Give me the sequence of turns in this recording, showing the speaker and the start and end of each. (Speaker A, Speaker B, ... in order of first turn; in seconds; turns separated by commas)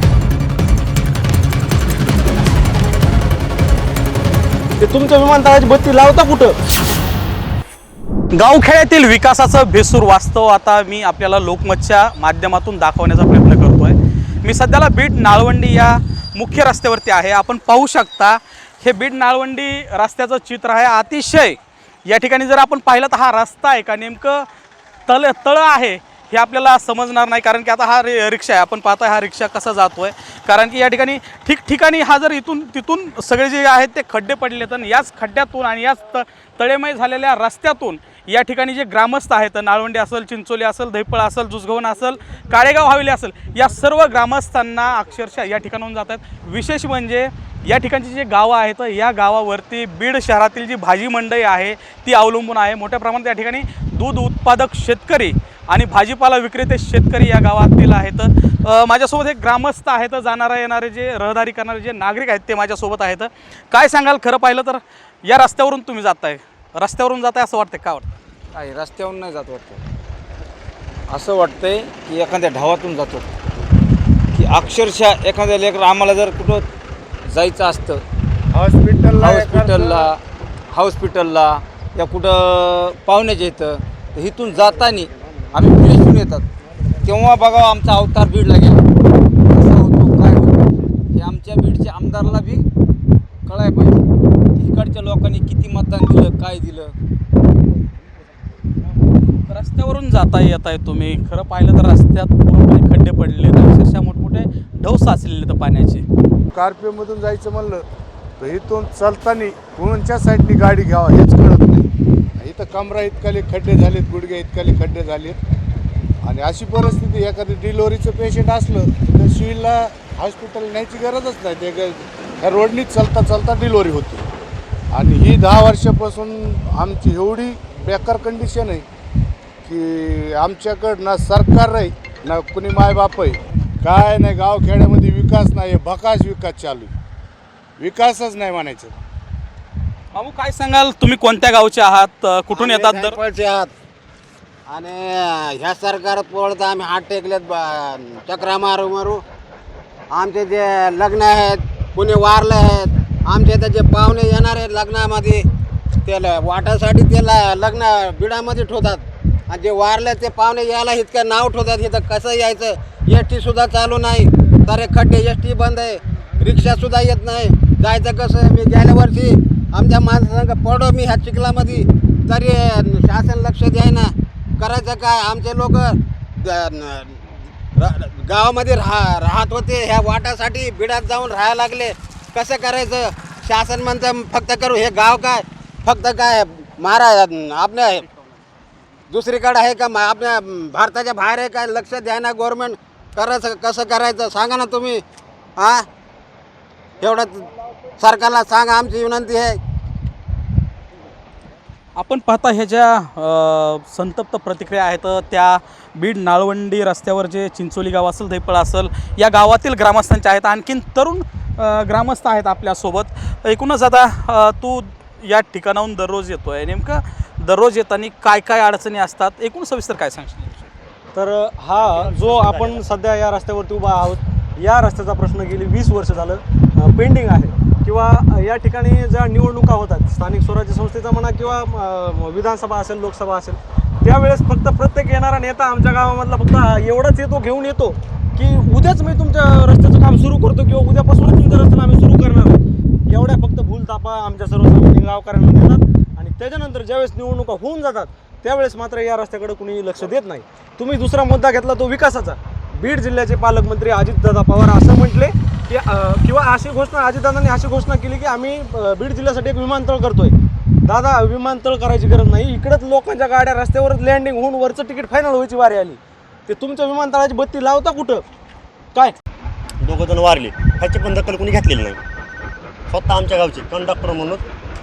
Speaker A: 4.8-6.5, Speaker B: 8.3-24.5, Speaker B: 25.1-68.1, Speaker C: 68.5-69.8, Speaker C: 71.1-73.3, Speaker C: 74.3-76.7, Speaker C: 77.3-78.0, Speaker D: 78.5-80.1, Speaker C: 79.2-80.2, Speaker C: 80.7-86.5, Speaker C: 87.0-88.8, Speaker C: 89.5-92.7, Speaker C: 93.5-94.0, Speaker C: 94.6-97.0, Speaker B: 99.5-106.0, Speaker D: 106.5-107.8, Speaker D: 108.4-115.4, Speaker D: 116.2-124.2, Speaker D: 124.9-128.8, Speaker D: 129.7-136.9, Speaker D: 137.8-139.0, Speaker B: 140.1-143.2, Speaker E: 142.5-143.7, Speaker E: 144.7-149.2, Speaker E: 150.1-155.4, Speaker E: 156.1-188.1, Speaker E: 189.1-195.0, Speaker E: 195.6-195.8, Speaker E: 197.0-197.5, Speaker E: 198.0-199.6, Speaker B: 202.0-220.7, Speaker A: 221.1-268.2, Speaker F: 221.8-222.8, Speaker F: 269.8-272.0, Speaker F: 272.9-274.4